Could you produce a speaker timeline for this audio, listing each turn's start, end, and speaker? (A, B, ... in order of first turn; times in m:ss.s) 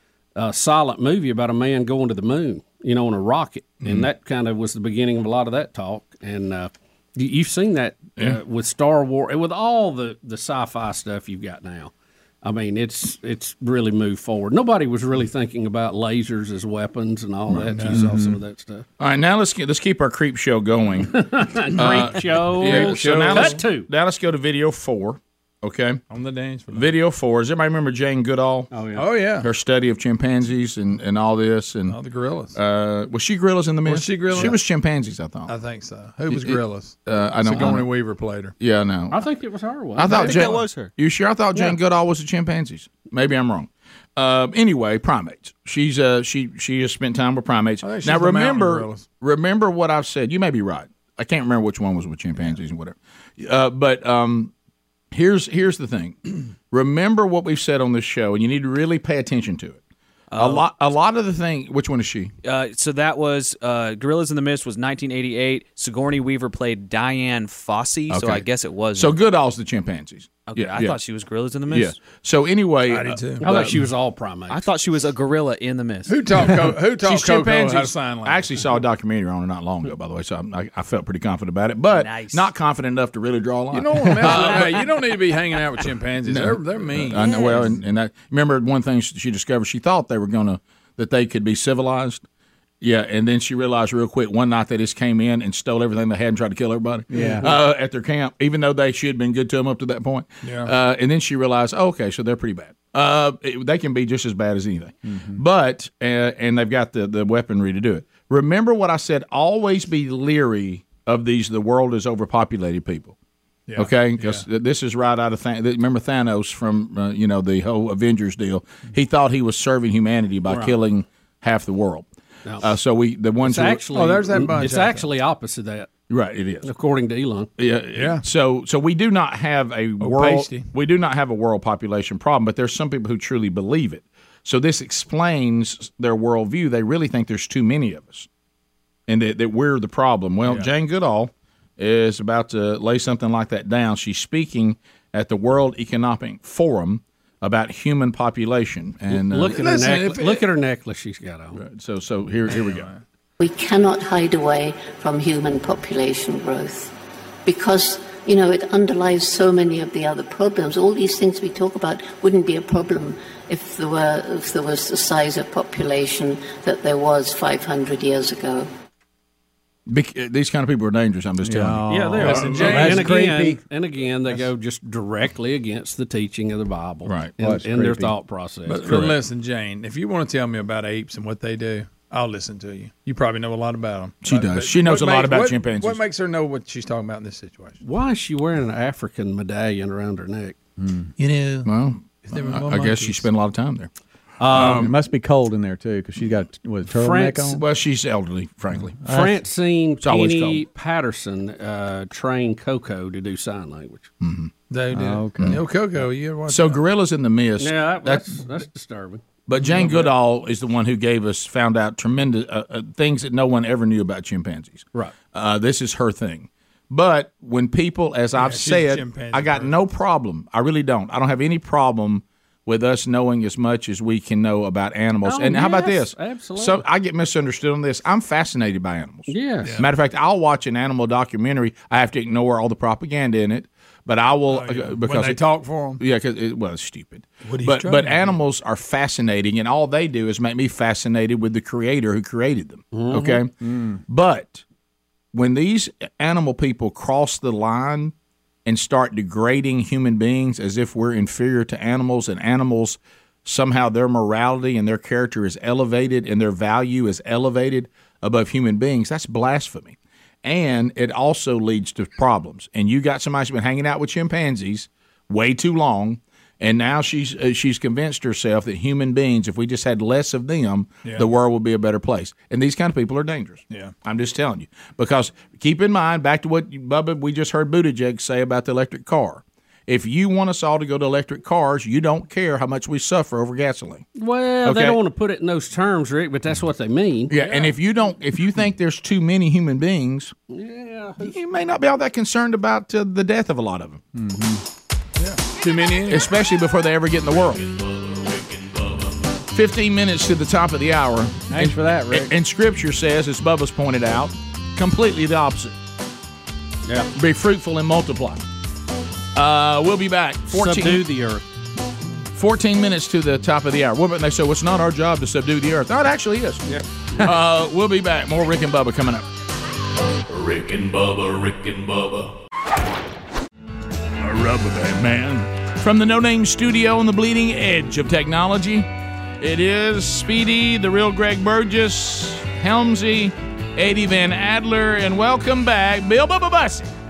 0:00.4-0:11.9 A
0:03.8-0:04.1 B
0:12.4-0:18.8 A
0:17.5-0:18.3 B
0:17.7-0:18.2 C
0:19.0-0:21.2 B
0:21.1-0:23.9 A
0:21.7-0:26.0 B
0:22.6-0:23.6 C
0:26.1-0:26.9 C
0:26.7-0:32.0 B
0:28.7-0:29.1 A
0:29.0-0:29.5 C
0:31.9-0:32.6 C
0:32.6-0:35.6 B
0:33.8-0:34.6 C
0:35.5-0:38.6 C
0:36.3-0:37.9 B
0:38.6-0:39.3 B
0:39.1-0:40.6 A
0:40.0-0:54.5 B
0:40.1-0:40.9 D
0:47.8-0:49.1 C
0:55.1-0:59.8 B
1:00.3-1:00.6 D
1:00.3-1:02.3 B
1:02.4-1:09.2 D
1:08.1-1:11.0 B
1:10.4-1:12.0 D
1:11.7-1:13.8 B
1:12.9-1:13.4 C
1:13.4-1:14.7 A
1:14.5-1:16.2 D
1:16.1-1:18.6 C
1:16.9-1:25.0 B
1:21.9-1:22.5 D
1:23.7-1:27.7 C
1:26.2-1:32.2 B
1:32.8-1:53.2 B
1:37.1-1:37.5 E
1:37.1-1:37.5 C
1:40.4-1:40.7 C
1:45.1-1:45.4 E
1:53.7-1:54.4 C
1:53.8-2:02.1 B
2:02.6-2:03.9 B
2:03.4-2:05.9 A
2:03.9-2:05.0 C
2:06.1-2:06.7 B
2:06.6-2:07.5 A
2:07.6-2:18.3 B
2:07.9-2:08.3 C
2:10.0-2:10.7 C
2:19.1-2:30.1 B
2:20.4-2:20.7 C
2:29.1-2:31.6 A
2:29.6-2:30.4 C
2:31.5-2:32.9 B
2:32.5-2:33.0 C
2:33.4-2:36.9 F
2:37.4-2:48.7 F
2:49.9-2:53.0 B
2:51.4-2:53.6 E
2:51.9-2:58.8 A
2:52.2-2:53.1 C
2:57.1-2:57.4 B
2:57.4-2:58.1 E
2:58.7-3:07.8 C
2:58.8-2:59.2 B
3:04.2-3:06.0 B
3:07.8-3:10.6 A
3:10.8-3:11.1 E
3:11.2-3:11.7 C
3:11.6-3:13.9 B
3:12.2-3:13.3 C
3:14.4-3:14.9 A
3:14.4-3:14.9 B
3:14.6-3:17.6 E
3:16.9-3:17.6 A
3:17.5-3:19.2 B
3:19.0-3:24.1 A
3:20.0-3:20.6 B
3:24.2-3:24.5 B
3:24.7-3:26.8 C
3:24.9-3:25.6 E
3:25.4-3:25.6 B
3:26.5-3:28.4 B
3:27.6-3:29.2 A
3:29.5-4:03.5 B
3:29.6-3:30.1 C
3:38.4-3:39.8 C
3:45.2-3:46.8 A
3:49.3-3:49.8 A
3:54.5-3:56.0 C
3:57.4-3:58.4 C
4:02.9-4:03.4 A
4:03.6-4:04.0 E
4:04.1-4:04.6 B
4:05.3-4:08.1 B
4:08.7-4:44.1 B
4:31.0-4:31.3 C
4:44.2-4:47.6 A
4:44.6-4:45.0 B
4:47.3-4:50.3 B
4:50.5-4:51.4 A
4:51.2-4:54.0 B
4:54.1-4:54.6 E
4:55.2-4:56.3 C
4:56.1-4:57.6 B
4:57.4-4:59.2 G
4:59.5-5:05.8 B
5:01.5-5:02.4 E
5:07.2-5:08.4 B
5:09.4-5:11.1 B
5:10.5-5:11.4 A
5:12.3-5:19.2 B
5:16.7-5:17.3 A
5:20.3-5:22.3 G
5:24.2-5:28.9 B
5:29.4-5:36.9 B